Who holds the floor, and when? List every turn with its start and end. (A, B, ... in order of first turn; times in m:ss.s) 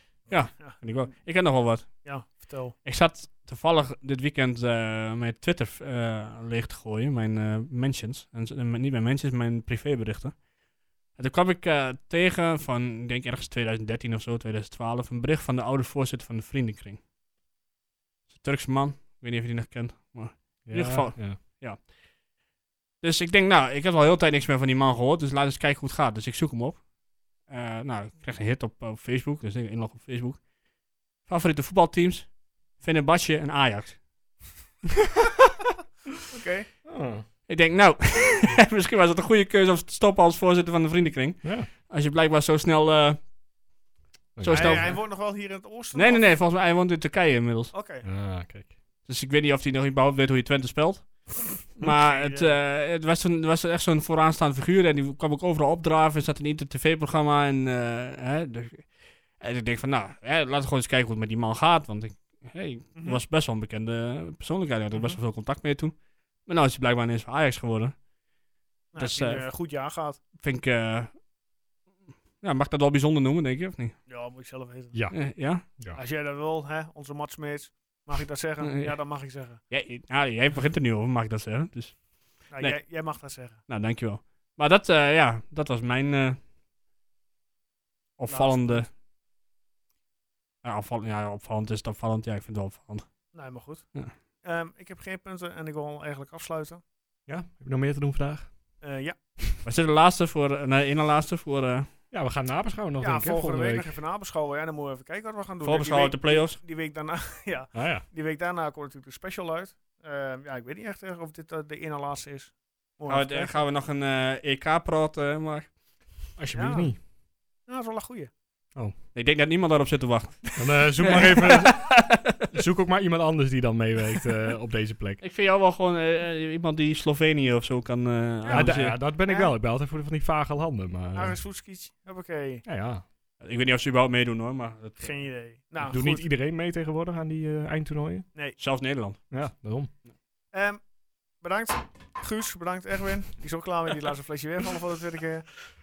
0:00.3-0:02.0 A
0:00.6-0:01.1 B
0:02.0-0:02.7 B
0:02.8-0:10.4 A
0:11.2-0:17.0 A
0:18.3-0:21.8 A
0:20.6-0:21.4 C
0:23.0-0:26.8 A
0:27.5-0:30.4 A
0:31.2-0:34.0 A
0:36.3-0:36.7 B
0:36.8-0:37.2 C
0:37.5-0:43.2 A
0:41.4-0:41.7 C
0:44.4-0:44.9 C
0:44.4-0:45.0 A
0:44.5-0:46.3 B
0:45.9-0:47.7 A
0:47.7-0:48.0 B
0:48.0-0:48.7 C
0:49.0-1:08.0 A
0:52.0-0:52.6 B
1:03.0-1:03.2 B
1:08.9-1:10.2 B
1:09.0-1:09.4 A
1:10.4-1:11.1 A
1:12.4-1:14.0 A
1:14.1-1:15.0 B
1:15.1-1:15.6 A
1:15.9-1:19.6 B
1:18.6-1:19.0 A
1:19.7-1:22.8 A
1:22.5-1:23.6 B
1:23.7-1:26.4 A
1:28.2-1:28.9 A
1:28.3-1:28.9 B
1:30.6-1:33.1 A
1:33.3-1:33.8 B
1:34.4-1:36.8 B
1:37.3-1:38.5 C
1:38.8-1:39.2 B
1:39.6-1:41.9 A
1:42.1-1:43.9 C
1:43.0-1:53.6 B
1:45.6-1:46.6 A
1:47.7-1:48.0 C
1:53.1-1:55.7 A
1:56.4-1:57.0 C
1:56.5-1:56.9 B
1:57.7-1:58.3 B
1:59.1-2:02.5 A
2:00.6-2:01.9 C
2:02.5-2:05.2 C
2:05.2-2:09.0 A
2:08.4-2:09.5 B
2:08.5-2:11.4 C
2:11.1-2:12.6 B
2:12.6-2:13.0 C
2:13.4-2:15.2 A
2:15.0-2:16.3 B
2:15.8-2:18.3 C
2:18.6-2:19.2 A
2:19.3-2:19.9 C
2:20.5-2:20.8 B
2:21.4-2:25.6 B